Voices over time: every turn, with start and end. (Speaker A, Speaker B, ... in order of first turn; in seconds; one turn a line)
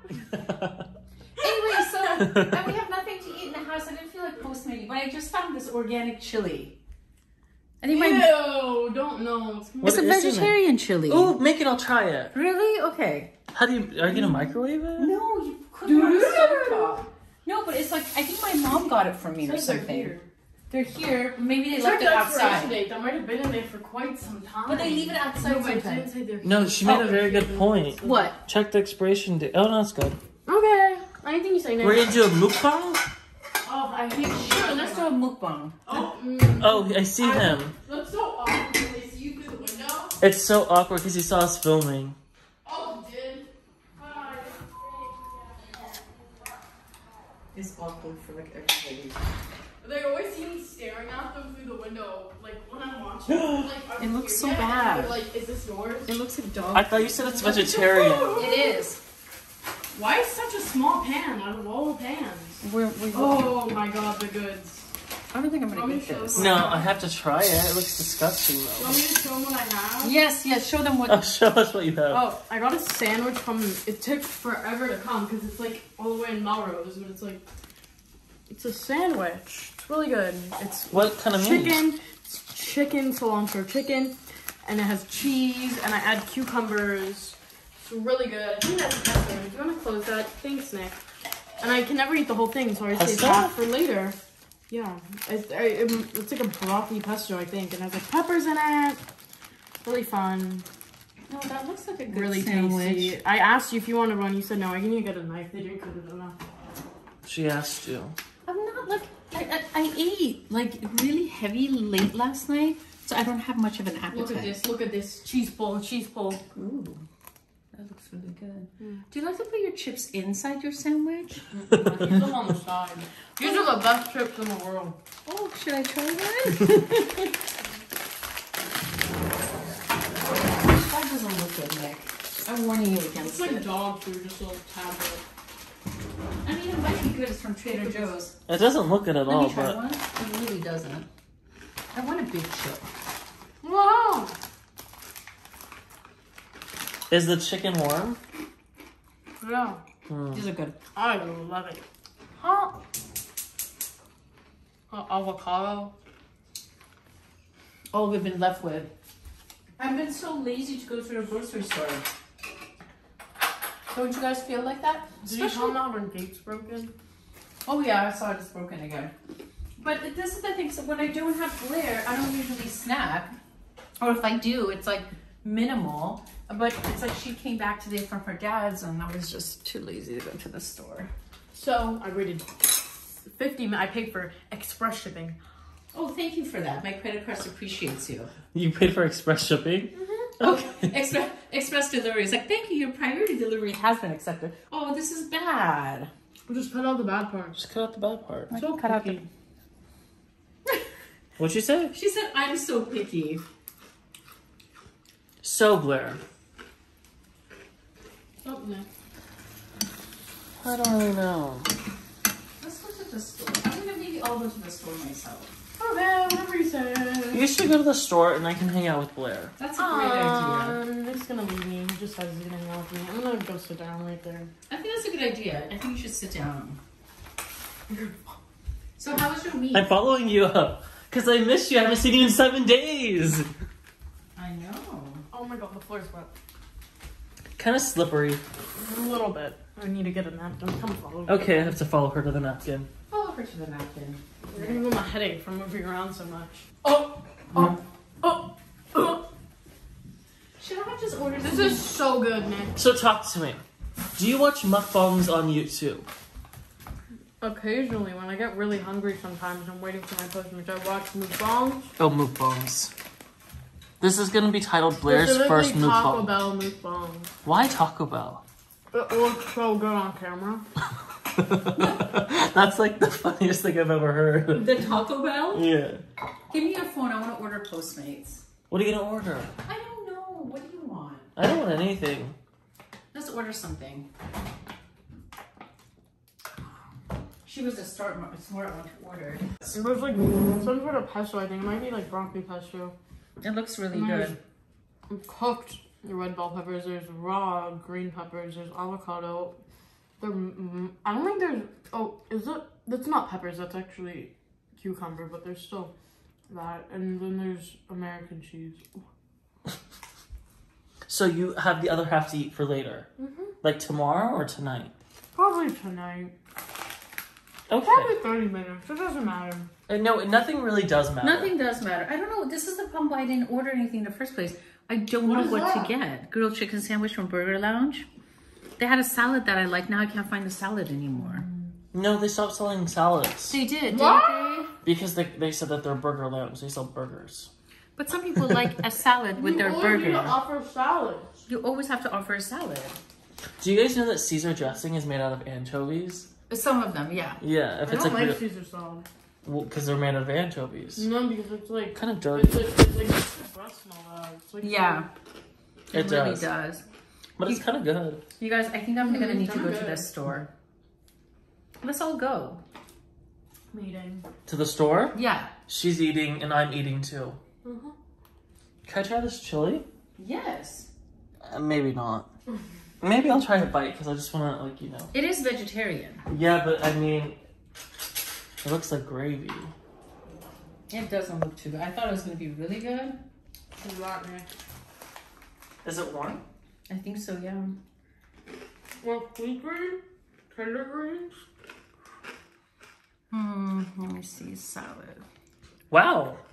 Speaker A: 0.3-0.8
Speaker B: 1.4-6.8
Speaker C: 1.4-2.2
Speaker B: 7.8-8.4
Speaker C: 7.9-10.0
Speaker A: 9.8-12.3
Speaker B: 9.8-11.4
Speaker B: 12.3-13.3
Speaker A: 13.5-15.1
Speaker B: 15.0-20.1
Speaker C: 15.8-17.1
Speaker C: 19.4-20.3
Speaker B: 20.7-22.8
Speaker C: 21.7-28.3
Speaker B: 24.7-26.1
Speaker A: 26.4-30.2
Speaker B: 28.0-28.4
Speaker C: 30.5-32.1
Speaker A: 31.8-33.1
Speaker C: 33.6-35.1
Speaker B: 34.2-35.9
Speaker C: 35.9-40.2
Speaker A: 36.6-37.8
Speaker A: 40.2-42.2
Speaker C: 42.6-45.5
Speaker B: 47.5-49.2
Speaker C: 49.8-56.1
Speaker A: 53.3-53.7
Speaker B: 54.0-55.3
Speaker B: 56.1-57.7
Speaker A: 56.7-58.5
Speaker C: 57.4-58.9
Speaker B: 58.3-59.0
Speaker C: 59.9-64.9
Speaker B: 62.6-63.7
Speaker B: 65.3-66.6
Speaker C: 65.7-66.9
Speaker A: 66.3-69.0
Speaker C: 68.8-70.1
Speaker B: 70.0-71.3
Speaker A: 71.1-72.2
Speaker C: 72.1-77.5
Speaker C: 78.5-91.0
Speaker A: 80.9-81.8
Speaker C: 91.6-94.2
Speaker A: 92.9-93.5
Speaker C: 94.7-99.0
Speaker C: 99.8-100.7
Speaker B: 101.3-103.2
Speaker C: 102.1-106.4
Speaker A: 107.2-108.2
Speaker B: 108.5-114.6
Speaker C: 114.1-116.4
Speaker B: 116.5-117.0
Speaker B: 117.7-121.5
Speaker C: 121.5-125.0
Speaker B: 123.4-123.8
Speaker B: 125.3-127.3
Speaker B: 130.4-133.7
Speaker C: 133.2-135.2
Speaker B: 136.4-138.3
Speaker C: 137.7-138.1
Speaker A: 138.5-139.8
Speaker B: 139.2-141.1
Speaker B: 141.9-142.9
Speaker C: 143.6-144.3
Speaker A: 147.1-148.2
Speaker C: 149.4-149.8
Speaker A: 150.1-150.4
Speaker B: 150.3-150.8
Speaker C: 150.9-151.8
Speaker C: 152.4-152.8
Speaker C: 154.9-155.9
Speaker B: 157.9-158.9
Speaker B: 159.8-162.1
Speaker B: 163.9-165.8
Speaker C: 165.2-166.9
Speaker B: 167.7-169.1
Speaker B: 169.8-173.3
Speaker B: 174.0-181.1
Speaker C: 181.5-185.4
Speaker B: 185.9-188.3
Speaker A: 188.5-190.9
Speaker C: 189.9-190.3
Speaker B: 190.4-196.1
Speaker C: 196.5-197.6
Speaker A: 197.6-198.5
Speaker B: 198.5-199.2
Speaker C: 198.5-199.2
Speaker A: 201.4-201.9
Speaker B: 201.9-203.4
Speaker A: 205.4-206.2
Speaker C: 208.4-208.9
Speaker A: 210.6-211.7
Speaker B: 212.6-215.5
Speaker C: 215.8-217.5
Speaker A: 217.3-219.5
Speaker B: 219.6-220.8
Speaker C: 219.8-224.5
Speaker B: 224.7-226.8
Speaker C: 227.9-228.2
Speaker B: 229.0-229.9
Speaker A: 229.7-233.5
Speaker B: 234.4-235.2
Speaker C: 235.3-236.3
Speaker A: 237.6-238.4
Speaker C: 238.8-241.8
Speaker A: 241.3-242.9
Speaker B: 243.1-244.8
Speaker C: 244.5-247.7
Speaker C: 248.2-249.2
Speaker B: 250.6-251.9
Speaker C: 251.4-252.8
Speaker A: 252.8-253.6
Speaker A: 254.2-256.1
Speaker C: 257.4-261.9
Speaker A: 262.0-262.9
Speaker A: 264.0-266.3
Speaker C: 265.0-267.3
Speaker A: 267.4-268.4
Speaker C: 268.9-270.6
Speaker A: 271.3-274.8
Speaker B: 274.5-275.7
Speaker A: 275.5-276.0
Speaker B: 276.5-278.4
Speaker A: 278.7-279.5
Speaker B: 279.6-281.3
Speaker A: 281.4-282.4
Speaker B: 283.1-284.1
Speaker B: 287.4-289.5
Speaker C: 289.7-292.9
Speaker B: 293.4-294.4
Speaker C: 293.9-294.4
Speaker C: 295.1-299.6
Speaker C: 300.2-305.9
Speaker C: 306.5-309.0
Speaker A: 311.1-313.1
Speaker C: 313.2-313.6
Speaker A: 313.6-314.9
Speaker C: 315.4-316.3
Speaker A: 317.7-318.1
Speaker C: 317.8-319.7
Speaker A: 319.9-321.5
Speaker B: 321.2-328.1
Speaker C: 325.2-325.9
Speaker B: 328.8-331.4
Speaker C: 331.2-331.7
Speaker A: 331.9-333.6
Speaker B: 333.5-334.7
Speaker C: 333.9-334.7
Speaker A: 334.8-337.5
Speaker B: 338.0-340.4
Speaker C: 339.4-341.3
Speaker B: 341.5-343.0
Speaker A: 343.6-346.3
Speaker B: 346.5-347.4
Speaker A: 347.4-348.4
Speaker C: 347.9-349.1
Speaker A: 349.4-351.1
Speaker C: 351.0-355.1
Speaker A: 351.9-352.6
Speaker B: 354.6-355.1
Speaker B: 355.9-356.8
Speaker A: 355.9-356.5
Speaker A: 357.4-358.2
Speaker B: 358.4-360.5
Speaker C: 359.0-360.1
Speaker B: 361.8-362.6
Speaker C: 363.7-364.2
Speaker A: 364.5-365.2
Speaker B: 365.1-365.5
Speaker A: 365.7-367.4
Speaker C: 367.6-367.9
Speaker A: 368.9-369.9
Speaker B: 370.2-370.9
Speaker A: 371.4-372.3
Speaker A: 373.0-375.1
Speaker B: 375.1-376.2
Speaker A: 376.3-377.4
Speaker A: 378.6-379.7
Speaker B: 380.9-383.2
Speaker C: 383.8-384.5
Speaker A: 385.8-386.4
Speaker B: 386.9-387.8
Speaker C: 389.0-391.4
Speaker B: 393.3-395.2
Speaker A: 395.9-396.4